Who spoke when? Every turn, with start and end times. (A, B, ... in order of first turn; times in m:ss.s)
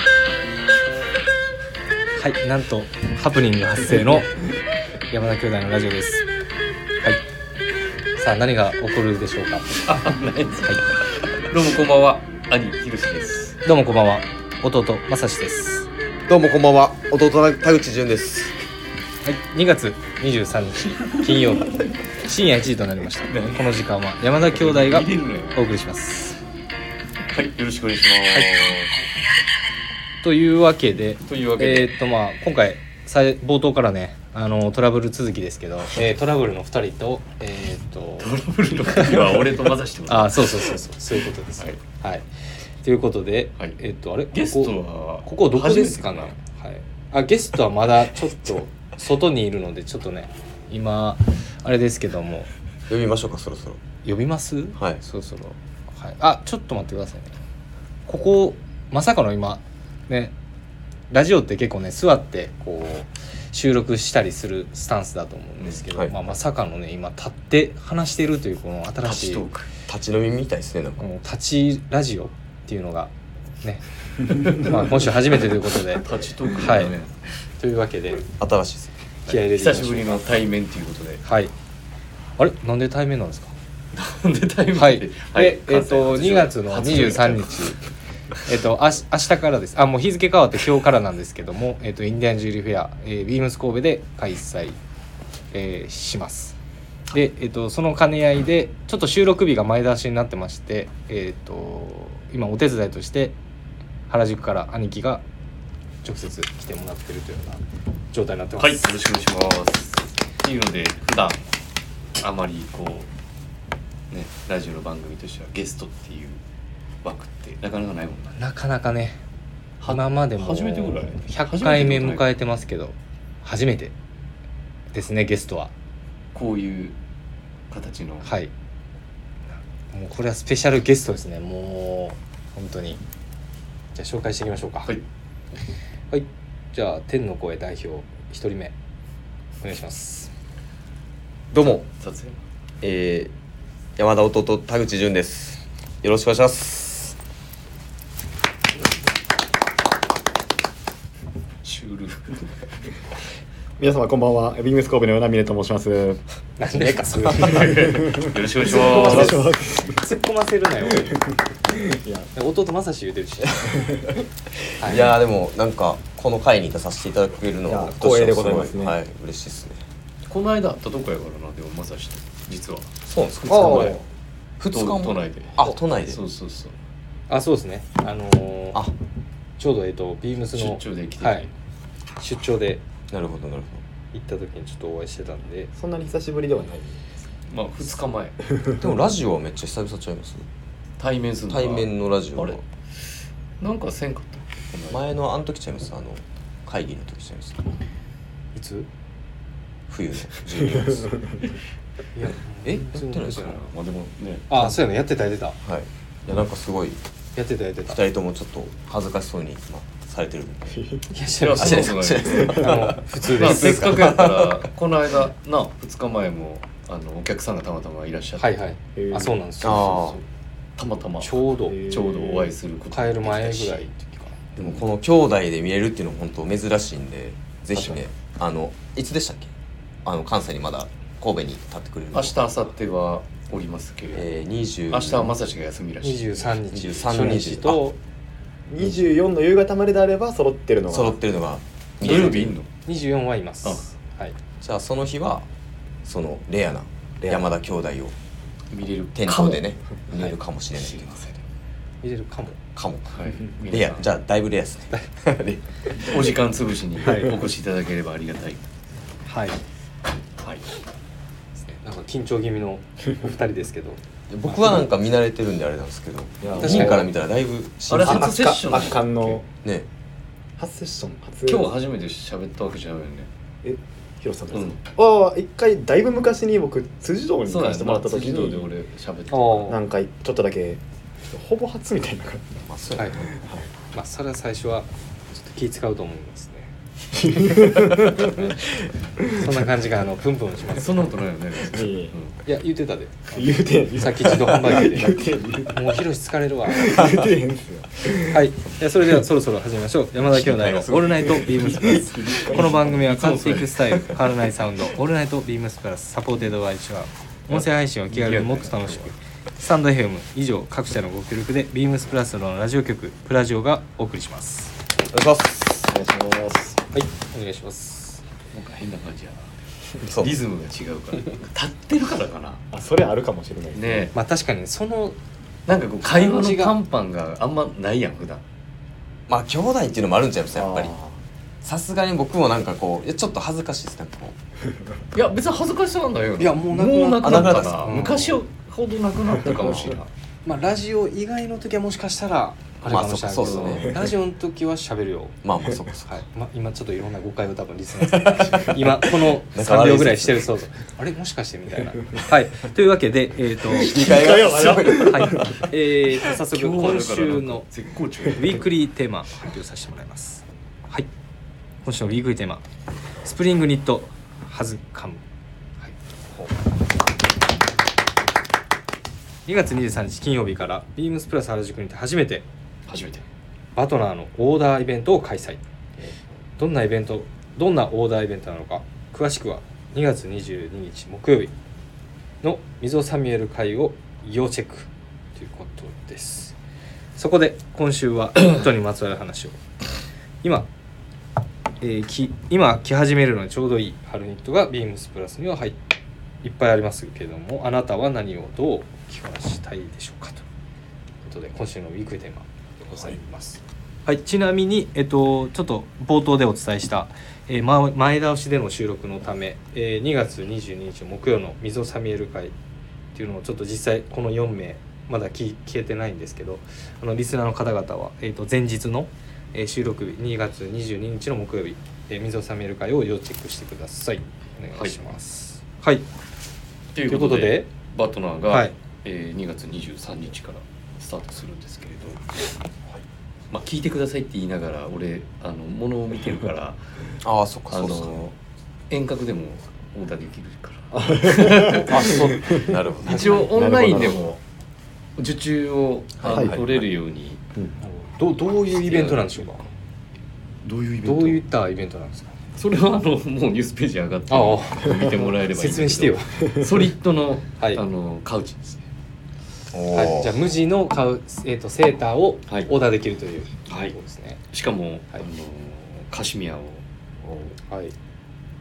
0:02.2-0:04.4 A
0:05.1-0:06.2 A
0:08.2-0:09.8 A
0:09.8-0:13.6 B
0:13.6-0:15.9 A
0:16.3-0:18.6 C
0:19.2-0:26.4 A
0:23.3-0:23.8 B
0:24.5-0:25.6 B
0:27.3-0:29.0 B
0:30.2-0:38.3 A
0:31.2-0:31.9 B
0:38.2-0:40.8 B
0:38.9-0:39.4 A
0:40.1-0:42.2 A
0:42.8-0:52.5 A
0:44.3-0:46.3 B
0:52.9-0:53.8 C
0:54.0-0:57.3 A
0:58.1-1:00.3 A
1:01.1-1:09.4 A
1:09.0-1:09.7 B
1:09.9-1:11.0 C
1:11.0-1:16.0 A
1:14.3-1:14.7 B
1:15.9-1:17.3 B
1:16.6-1:16.9 A
1:17.6-1:18.2 A
1:18.4-1:18.9 C
1:19.2-1:21.2 B
1:19.3-1:20.3 A
1:21.2-1:21.5 A
1:22.4-1:23.5 A
1:23.9-1:27.7 B
1:24.7-1:27.8 A
1:28.4-1:34.8 A
1:35.5-1:36.6 A
1:37.1-1:43.3 A
1:44.1-1:45.2 A
1:46.0-1:47.6 A
1:48.1-1:48.9 A
1:48.6-1:51.4 B
1:52.2-1:53.1 B
1:54.1-1:56.4 B
1:57.0-1:58.4 B
1:58.4-1:59.2 A
1:59.8-2:02.3 B
1:59.8-2:03.9 A
2:04.9-2:05.7 A
2:06.3-2:07.0 B
2:07.7-2:08.3 B
2:08.2-2:08.5 A
2:09.9-2:13.0 A
2:13.9-2:14.9 A
2:16.1-2:18.7 A
2:19.6-2:20.3 A
2:21.5-2:21.8 C
2:22.0-2:22.4 B
2:22.8-2:23.3 C
2:24.0-2:27.2 C
2:31.6-2:32.5 B
2:33.8-2:36.2 D
2:36.6-2:38.0 A
2:37.2-2:39.4 B
2:37.7-2:40.0 D
2:38.6-2:41.2 A
2:41.7-2:42.3 D
2:42.3-2:43.9 A
2:44.8-2:45.1 A
2:44.8-2:49.8 C
2:47.7-2:49.0 D
2:50.3-2:54.0 B
2:53.1-2:54.0 C
2:53.5-2:54.0 D
2:54.6-2:56.2 C
2:54.7-2:56.8 B
2:57.3-2:58.9 A
2:59.6-3:01.5 A
3:00.5-3:01.5 B
3:02.2-3:02.8 A
3:03.1-3:03.8 C
3:04.1-3:05.7 A
3:05.7-3:07.0 D
3:07.5-3:08.4 B
3:08.7-3:10.4 C
3:11.0-3:12.6 B
3:11.5-3:12.6 C
3:13.6-3:15.1 B
3:14.9-3:17.7 C
3:18.5-3:18.9 A
3:19.9-3:21.3 C
3:21.0-3:21.4 D
3:22.2-3:23.6 A
3:22.6-3:23.6 C
3:23.2-3:24.5 B
3:24.5-3:25.6 A
3:25.6-3:27.0 C
3:27.4-3:28.0 A
3:27.9-3:30.8 C
3:30.8-3:31.0 D
3:31.1-3:33.8 A
3:31.4-3:38.7 B
3:31.6-3:34.7 C
3:38.4-3:40.1 A
3:38.9-3:39.4 D
3:39.6-3:40.2 C
3:39.8-3:40.2 B
3:40.8-3:43.9 B
3:41.2-3:41.9 A
3:41.7-3:42.5 D
3:42.9-3:44.4 A
3:44.6-3:49.5 C
3:47.8-3:48.0 D
3:50.0-3:52.4 C
3:52.1-3:54.4 B
3:54.1-3:55.3 C
3:54.9-3:56.6 B
3:56.0-3:58.0 A
3:56.7-3:57.8 C
3:58.7-4:01.2 D
3:58.8-3:59.0 C
4:00.9-4:02.6 C
4:02.0-4:02.7 B
4:02.0-4:04.3 A
4:04.6-4:05.5 C
4:06.0-4:08.1 C
4:07.2-4:07.5 D
4:08.7-4:11.4 B
4:09.1-4:11.2 C
4:12.0-4:12.6 A
4:12.7-4:16.2 C
4:13.1-4:14.1 B
4:16.0-4:18.7 B
4:17.0-4:17.3 A
4:19.2-4:19.6 A
4:20.4-4:20.7 B
4:21.6-4:24.8 A
4:24.3-4:28.5 C
4:26.4-4:27.1 D
4:26.5-4:27.0 B
4:26.6-4:27.0 A
4:27.9-4:29.4 B
4:28.0-4:29.5 D
4:30.6-4:31.7 D
4:31.4-4:33.3 B
4:33.6-4:38.7 D
4:34.5-4:34.8 B
4:37.5-4:39.8 B
4:39.3-4:39.8 A
4:39.7-4:42.6 D
4:42.6-4:43.4 C
4:43.0-4:43.3 A
4:43.2-4:43.7 D
4:43.9-4:46.7 A
4:47.2-4:48.5 D
4:49.3-4:51.1 A
4:50.7-4:52.4 B
4:51.7-4:52.1 D
4:52.4-4:57.1 A
4:53.3-4:55.8 D
4:56.7-4:58.4 D
4:58.2-5:14.7 A
5:00.4-5:04.0 B
5:01.2-5:03.0 D
5:07.5-5:09.1 B
5:15.1-5:15.9 C
5:15.8-5:16.8 D
5:16.9-5:18.2 A
5:18.5-5:22.6 B
5:20.0-5:20.3 C
5:22.7-5:24.1 D
5:23.7-5:24.1 B
5:24.1-5:25.2 A
5:25.7-5:28.4 B
5:26.0-5:26.8 A
5:29.3-5:30.9 C
5:30.5-5:31.2 D
5:31.6-5:34.4 C
5:35.1-5:40.1 B
5:36.4-5:38.4 A
5:37.2-5:37.9 C
5:39.6-5:40.0 C
5:40.4-5:45.4 A
5:42.8-5:44.1 C
5:43.4-5:43.8 B
5:45.4-5:46.2 C
5:46.1-5:57.7 A
5:48.2-5:48.7 C
5:49.3-5:50.5 C
5:53.7-5:55.6 C
5:53.9-5:55.5 D
5:56.2-5:58.6 B
5:58.3-6:01.1 A
6:01.8-6:02.6 A
6:03.2-6:05.2 A
6:09.4-6:12.4 A
6:12.9-6:13.2 B
6:13.7-6:15.6 A
6:16.6-6:21.5 A
6:22.4-6:26.5 A
6:27.2-6:29.6 A
6:30.4-6:30.7 A
6:31.8-6:35.8 A
6:36.4-6:40.4 A
6:41.2-6:52.5 A
6:53.1-7:06.0 A
7:06.9-7:12.5 B
7:07.1-7:07.7 A
7:13.5-7:16.8 B
7:17.2-7:18.2 C
7:17.7-7:18.3 B
7:18.9-7:24.4 B
7:20.9-7:24.3 D
7:21.7-7:23.6 C
7:25.2-7:27.4 B
7:26.2-7:26.9 C
7:26.3-7:26.6 D
7:27.8-7:29.7 A
7:28.6-7:29.7 B
7:30.6-7:31.4 B
7:31.0-7:32.4 A
7:32.6-7:38.8 B
7:34.3-7:36.6 A
7:39.7-7:40.4 C
7:39.9-7:44.4 A
7:43.7-7:43.9 B
7:44.5-7:46.8 B
7:47.7-7:47.9 A